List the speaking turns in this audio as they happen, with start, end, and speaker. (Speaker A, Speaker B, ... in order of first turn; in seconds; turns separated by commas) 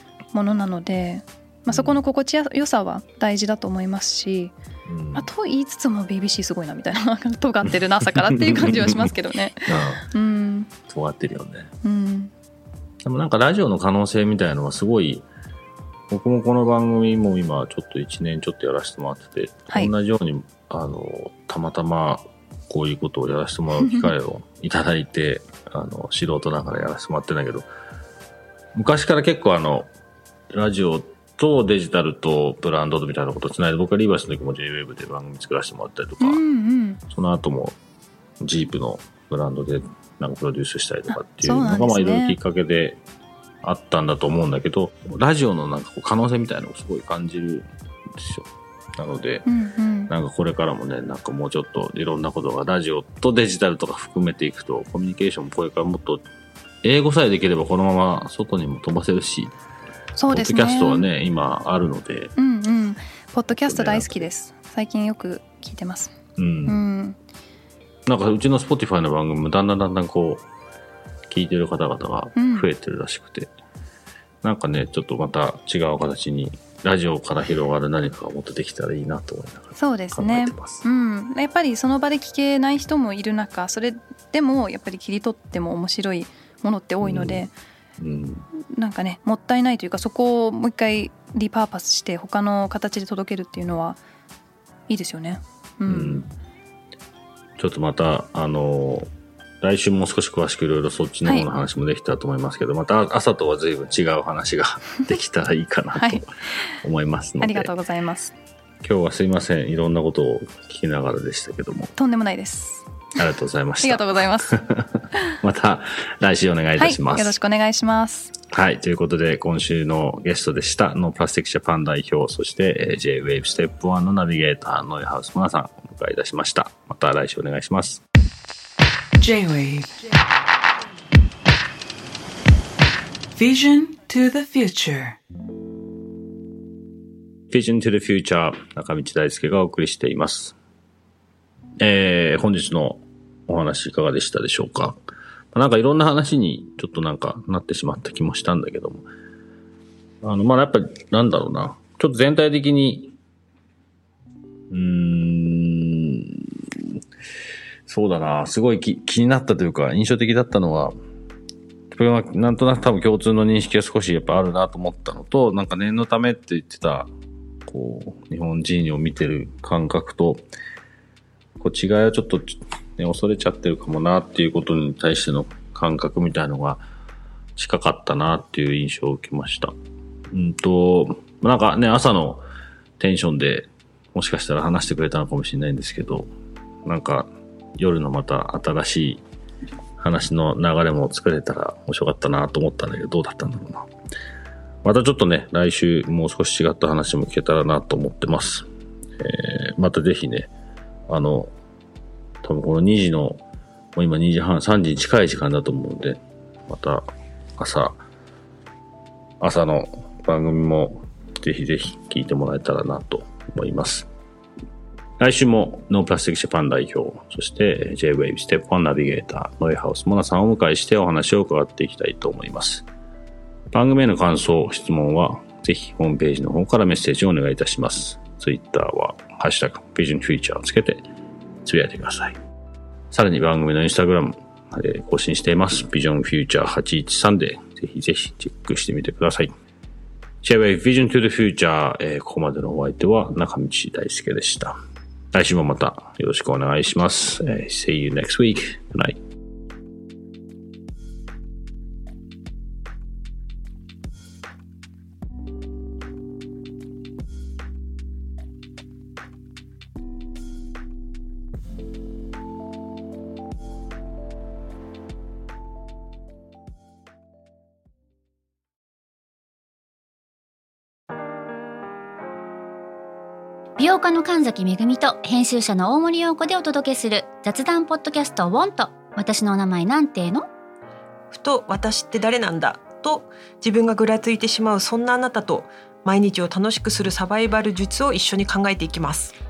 Speaker A: 0.3-4.5, Speaker B: 1.7-2.0, Speaker B: 4.9-5.3, Speaker A: 5.1-10.7, Speaker B: 7.7-9.1, Speaker B: 9.7-10.1, Speaker B: 10.9-11.7, Speaker A: 11.8-12.3, Speaker B: 13.0-15.3, Speaker B: 16.1-27.6, Speaker B: 28.7-29.9, Speaker B: 30.5-36.4, Speaker A: 36.2-37.0, Speaker B: 37.1-37.8, Speaker B: 38.4-43.0, Speaker A: 41.1-42.4, Speaker B: 43.6-49.5, Speaker A: 49.5-50.1, Speaker B: 50.1-56.2, Speaker B: 56.8-59.5, Speaker A: 60.1-61.1, Speaker B: 60.3-62.3, Speaker A: 62.4-66.1, Speaker B: 63.6-64.3, Speaker B: 66.4-66.8, Speaker A: 66.7-67.2, Speaker B: 68.1-70.5, Speaker B: 71.3-73.5, Speaker A: 72.4-72.7, Speaker B: 74.4-80.8, Speaker A: 79.8-87.5, Speaker B: 87.0-87.5, Speaker B: 88.0-88.5, Speaker A: 88.7-94.0, Speaker A: 94.9-96.2, Speaker B: 95.9-96.3, Speaker B: 97.6-99.1, Speaker B: 99.6-106.3, Speaker A: 106.0-106.2, Speaker B: 106.8-107.7, Speaker A: 107.4-108.3, Speaker B: 108.8-111.9, Speaker A: 112.0-112.9, Speaker B: 113.2-117.4, Speaker A: 113.8-114.6, Speaker A: 116.8-118.3, Speaker B: 118.5-128.0, Speaker C: 129.2-129.9, Speaker C: 133.4-135.2, Speaker B: 137.5-140.6, Speaker B: 141.8-145.0, Speaker B: 145.5-149.1, Speaker B: 150.2-153.2, Speaker B: 154.7-157.0, Speaker B: 157.9-160.9, Speaker B: 161.9-167.1, Speaker B: 167.7-170.4, Speaker B: 171.6-176.8, Speaker B: 177.6-179.7, Speaker B: 180.3-182.4, Speaker B: 183.0-186.3, Speaker B: 186.9-189.2, Speaker B: 190.0-193.9, Speaker B: 194.8-200.5, Speaker B: 201.1-201.5, Speaker B: 202.4-203.4, Speaker B: 203.9-207.1, Speaker B: 207.6-208.0, Speaker B: 209.4-214.1, Speaker B: 215.2-222.8, Speaker B: 223.7-231.0, Speaker B: 231.6-232.4, Speaker B: 233.1-239.5, Speaker B: 240.4-244.8, Speaker B: 245.3-249.2, Speaker D: 273.8-280.4, Speaker E: 281.3-289.3